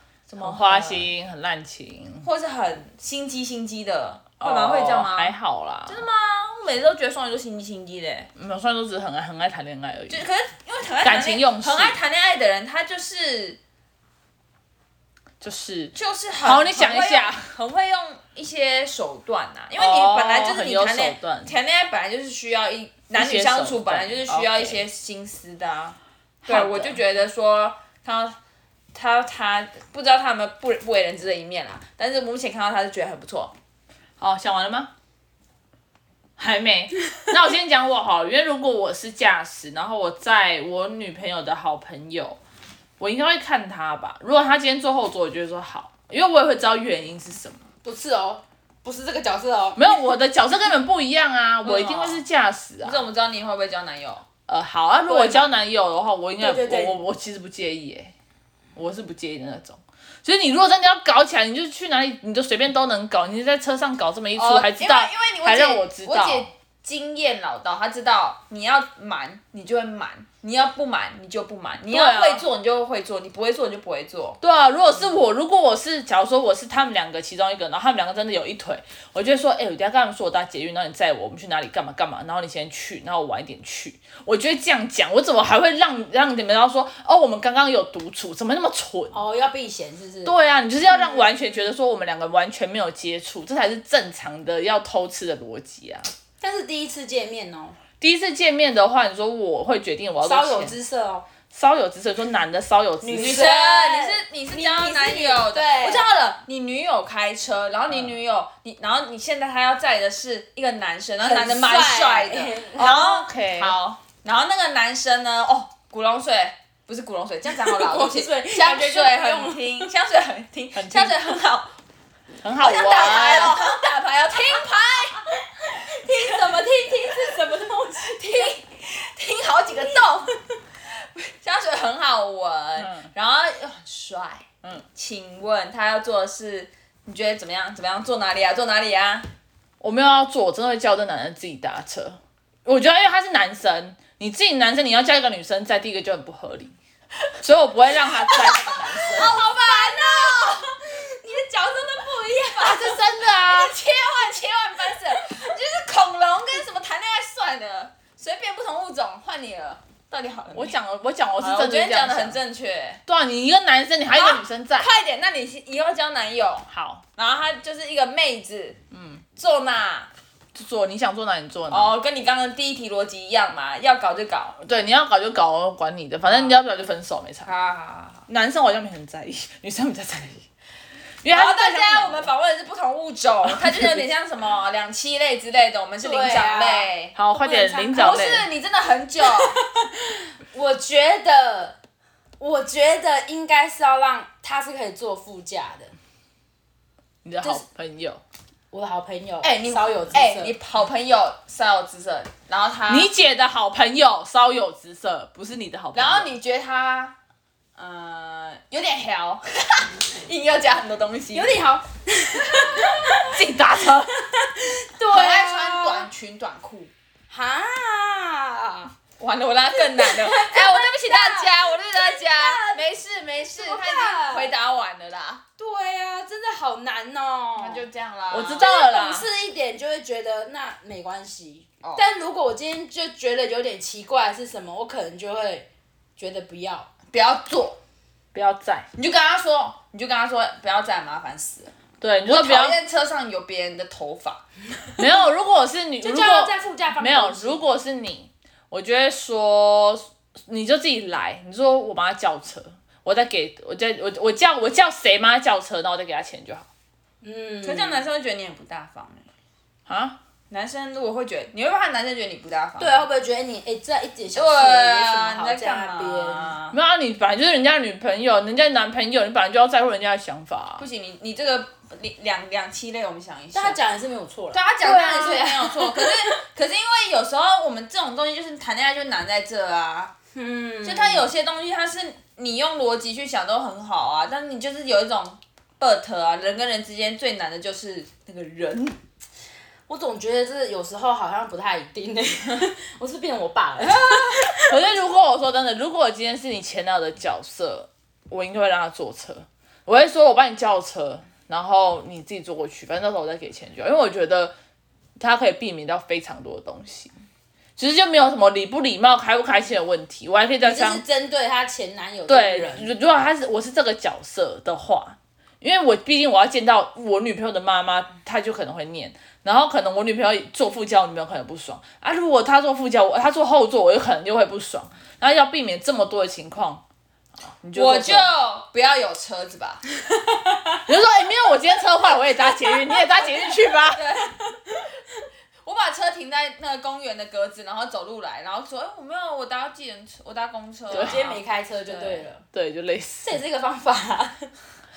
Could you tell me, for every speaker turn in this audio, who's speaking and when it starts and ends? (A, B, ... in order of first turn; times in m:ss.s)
0:00.3-0:01.1 A
0:00.4-0:02.3 B
0:02.2-0:05.3 A
0:04.4-0:06.1 B
0:05.9-0:08.3 A
0:08.4-0:10.2 B
0:10.1-0:13.6 A
0:11.0-0:12.0 B
0:15.4-0:17.5 B
0:15.9-0:28.4 A
0:19.8-0:21.6 B
0:23.1-0:24.8 B
0:26.4-0:27.0 B
0:28.9-0:33.5 A
0:34.2-0:34.9 B
0:36.4-0:42.4 B
0:43.0-0:47.6 B
0:47.8-0:49.9 C
0:49.8-0:53.0 B
0:51.6-0:52.2 A
0:52.8-0:54.2 A
0:54.5-0:58.1 B
0:55.1-0:55.4 C
0:56.4-0:57.0 C
0:58.7-1:06.5 B
1:04.4-1:14.4 A
1:11.9-1:12.4 B
1:14.4-1:29.2 B
1:29.1-1:30.4 C
1:30.2-1:36.1 B
1:30.9-1:31.5 C
1:36.4-1:37.8 C
1:38.0-1:40.7 B
1:40.2-1:41.2 C
1:41.5-1:43.5 B
1:43.0-1:46.1 C
1:43.1-2:01.7 A
1:51.2-1:52.9 C
1:52.8-1:53.8 B
1:57.5-1:59.7 C
2:00.7-2:01.2 B
2:02.4-2:03.6 B
2:02.6-2:05.3 A
2:02.6-2:03.9 C
2:05.6-2:08.6 C
2:06.0-2:19.3 A
2:09.7-2:10.0 C
2:12.8-2:13.1 B
2:19.8-2:26.7 B
2:27.4-2:29.3 B
2:28.2-2:33.0 C
2:29.1-2:30.6 A
2:32.6-2:33.8 B
2:32.8-2:40.8 A
2:40.5-2:42.4 B
2:41.4-2:43.0 A
2:43.1-2:44.9 B
2:44.1-2:48.8 A
2:46.7-2:47.0 B
2:48.9-2:49.2 B
2:49.4-2:50.1 A
2:50.5-2:51.9 B
2:51.7-2:54.6 A
2:54.6-2:57.5 B
2:56.2-2:56.6 A
2:57.4-2:58.3 A
2:58.3-3:00.4 B
3:01.2-3:02.3 B
3:01.3-3:09.6 A
3:03.4-3:04.1 B
3:06.0-3:08.2 C
3:07.2-3:08.5 B
3:09.2-3:11.8 C
3:12.4-3:15.9 C
3:17.2-3:18.2 B
3:18.7-3:20.5 C
3:19.4-3:23.1 A
3:22.9-3:26.3 B
3:25.9-3:27.1 A
3:27.8-3:31.5 A
3:31.3-3:33.4 C
3:32.4-3:33.2 A
3:33.2-3:34.2 B
3:34.1-3:36.1 C
3:35.1-3:36.9 A
3:37.3-3:38.9 C
3:39.2-3:45.4 A
3:39.7-3:42.8 C
3:43.4-3:44.5 C
3:45.6-3:47.8 C
3:47.6-3:48.7 A
3:48.3-3:49.3 B
3:48.6-3:55.7 C
3:56.2-3:56.9 C
3:57.1-3:57.8 A
3:58.3-3:58.9 B
3:59.0-4:01.7 A
4:02.0-4:02.8 B
4:02.2-4:04.4 A
4:05.0-4:16.7 B
4:06.0-4:07.6 C
4:17.2-4:18.1 C
4:17.6-4:19.3 A
4:19.9-4:20.2 B
4:20.5-4:23.0 A
4:22.8-4:26.6 C
4:24.3-4:26.8 A
4:26.7-4:30.8 B
4:30.8-4:33.8 A
4:33.5-4:36.4 C
4:34.5-4:40.1 A
4:40.3-4:41.3 C
4:40.8-4:49.0 A
4:49.9-4:54.8 C
4:53.8-4:54.5 A
4:54.5-5:04.5 B
5:05.2-5:07.1 B
5:07.8-5:11.0 B
5:10.6-5:12.9 C
5:12.3-5:26.8 B
5:27.4-5:28.3 B
5:27.7-5:29.8 A
5:30.9-5:34.1 B
5:33.9-5:34.8 A
5:35.6-5:42.2 A
5:40.9-5:41.3 B
5:40.9-5:42.4 C
5:42.5-5:43.2 B
5:43.2-5:44.5 C